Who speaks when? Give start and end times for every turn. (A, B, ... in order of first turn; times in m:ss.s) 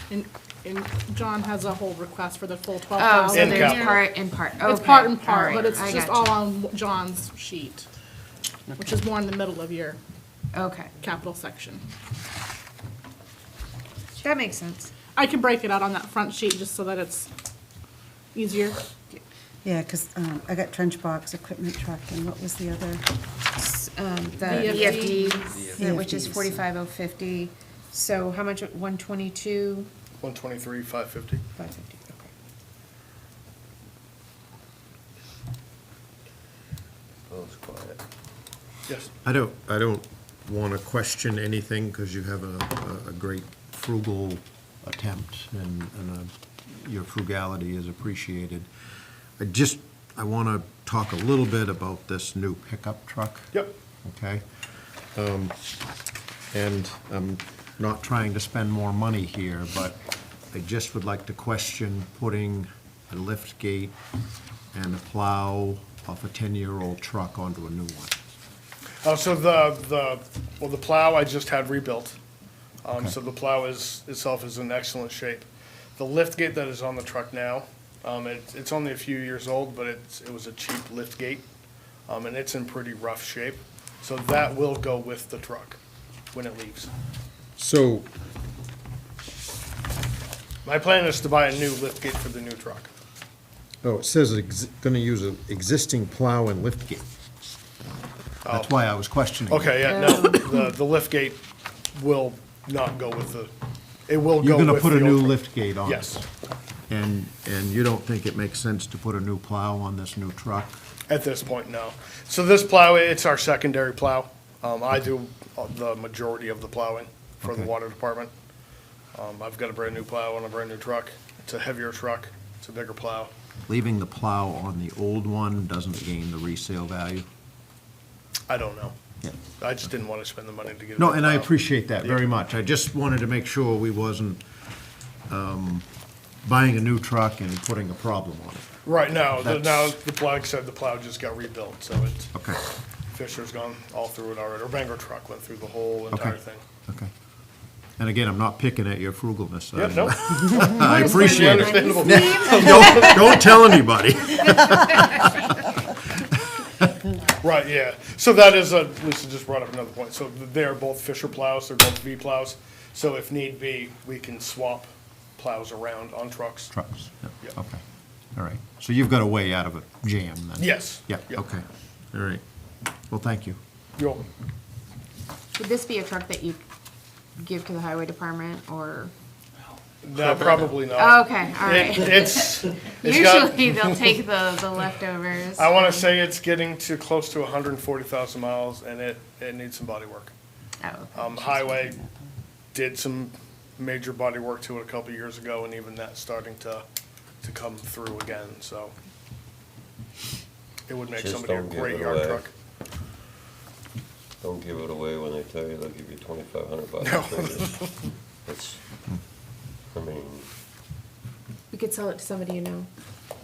0:00.1-0:07.8 A
0:02.9-0:06.3 B
0:03.3-0:04.0 C
0:08.7-0:10.0 A
0:10.5-0:10.9 B
0:11.0-0:11.8 A
0:14.2-0:14.9 B
0:15.1-0:17.3 A
0:18.3-0:18.8 A
0:19.6-0:23.0 D
0:23.5-0:29.9 B
0:24.4-0:25.6 A
0:25.7-0:26.6 D
0:30.2-0:31.4 C
0:31.6-0:32.3 B
0:37.3-0:38.0 E
0:39.2-0:48.7 F
0:49.4-0:54.4 F
0:55.1-0:55.5 F
0:56.5-1:00.0 F
1:00.5-1:04.0 F
1:04.7-1:08.1 F
1:09.0-1:12.2 C
1:12.8-1:15.4 C
1:16.0-1:21.4 C
1:22.1-1:25.8 C
1:26.3-1:26.9 C
1:27.6-1:28.1 F
1:30.6-1:32.9 C
1:33.8-1:37.0 F
1:38.4-1:38.7 C
1:38.5-1:39.8 F
1:39.5-1:41.4 C
1:39.8-1:40.6 B
1:41.9-1:43.5 C
1:44.1-1:46.2 C
1:44.4-1:46.2 F
1:46.9-1:50.8 F
1:51.1-1:58.3 C
1:57.4-1:57.7 F
1:59.1-2:03.3 C
2:03.7-2:07.2 F
2:08.5-2:09.0 C
2:09.6-2:12.3 C
2:11.0-2:14.4 F
2:15.3-2:15.8 F
2:16.4-2:18.7 F
2:18.8-2:22.3 C
2:19.4-2:19.9 F
2:22.3-2:22.6 F
2:23.1-2:26.6 C
2:26.1-2:27.1 F
2:28.0-2:35.2 F
2:29.7-2:33.5 C
2:30.6-2:33.2 B
2:37.4-2:46.7 C
2:46.7-2:47.8 F
2:48.3-2:52.4 F
2:50.6-2:51.4 C
2:53.1-2:53.6 F
2:54.0-2:54.2 C
2:55.6-2:56.6 B
2:57.4-2:59.1 B
3:00.0-3:04.0 C
3:00.9-3:05.9 B
3:05.6-3:10.3 C
3:10.8-3:11.7 B
3:11.1-3:12.0 C
3:12.7-3:16.8 C
3:17.4-3:18.9 C
3:20.9-3:22.5 C
3:21.1-3:22.5 E
3:24.4-3:27.8 E
3:27.0-3:27.9 C
3:28.4-3:28.8 E
3:29.9-3:30.4 E
3:31.7-3:32.9 B